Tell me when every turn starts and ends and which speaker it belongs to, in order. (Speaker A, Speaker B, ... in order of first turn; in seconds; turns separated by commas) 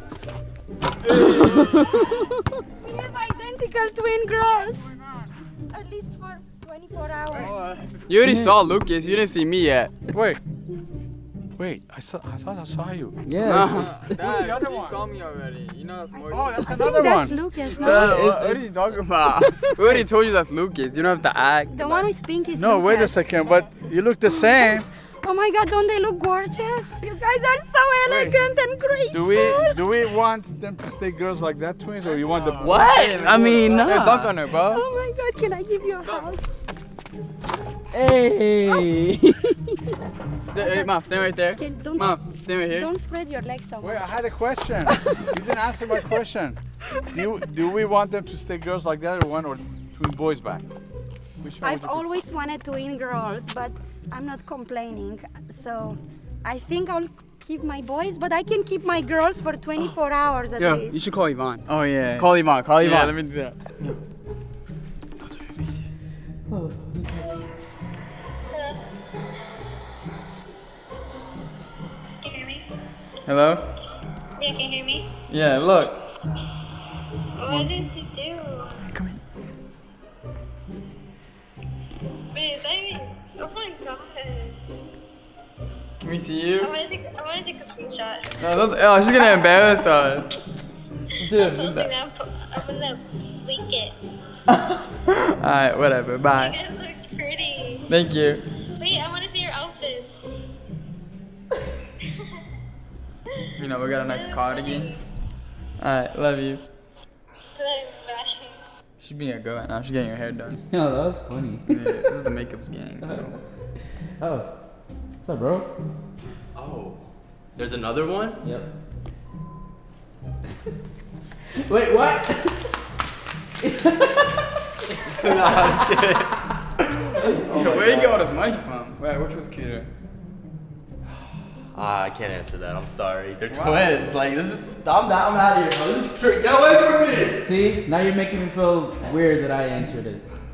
Speaker A: 1.1-1.9, Speaker B: 1.1-2.0, Speaker C: 1.8-2.2, Speaker C: 2.8-5.0, Speaker C: 5.7-7.7, Speaker A: 7.4-10.0, Speaker B: 8.2-8.6, Speaker D: 10.1-10.4, Speaker D: 11.6-13.2, Speaker B: 13.2-14.2, Speaker A: 13.4-16.8, Speaker D: 14.1-15.0, Speaker D: 16.3-17.4, Speaker C: 16.6-18.2, Speaker A: 17.8-22.1, Speaker B: 17.8-18.7, Speaker B: 19.4-19.7, Speaker C: 21.7-23.3, Speaker D: 22.5-24.9, Speaker C: 24.3-30.0, Speaker D: 28.0-28.4, Speaker D: 29.1-32.8, Speaker A: 32.0-34.9, Speaker B: 32.6-34.3, Speaker C: 34.6-36.4, Speaker B: 37.9-39.8, Speaker A: 40.5-42.9, Speaker C: 40.5-44.1, Speaker D: 43.8-46.6, Speaker D: 47.1-50.7, Speaker D: 51.4-52.1, Speaker C: 51.6-61.0, Speaker B: 60.6-61.6, Speaker A: 61.7-64.0, Speaker B: 62.2-63.1, Speaker B: 66.5-67.5, Speaker E: 72.2-72.7, Speaker A: 73.3-73.7, Speaker E: 74.4-75.1, Speaker A: 75.3-76.0, Speaker E: 77.4-78.8, Speaker A: 77.5-77.8, Speaker A: 78.8-79.2, Speaker E: 82.3-84.6, Speaker A: 86.0-86.7, Speaker E: 86.6-88.5, Speaker A: 88.4-90.4, Speaker A: 91.2-91.9, Speaker E: 91.3-94.0, Speaker A: 95.4-96.6, Speaker E: 96.4-97.9, Speaker A: 97.9-98.5, Speaker E: 98.8-100.2, Speaker A: 103.6-105.0, Speaker E: 104.1-104.9, Speaker A: 105.8-106.6, Speaker E: 107.5-108.6, Speaker A: 109.0-110.6, Speaker B: 110.7-111.8, Speaker A: 111.7-113.4, Speaker B: 113.0-113.3, Speaker B: 114.2-114.5, Speaker B: 115.2-115.7, Speaker F: 116.6-117.0, Speaker F: 117.6-118.5, Speaker B: 121.6-122.7, Speaker B: 123.6-124.4, Speaker F: 125.1-126.4, Speaker F: 127.2-128.3, Speaker A: 127.4-129.9, Speaker F: 131.7-137.3, Speaker A: 133.5-134.0, Speaker B: 137.4-140.2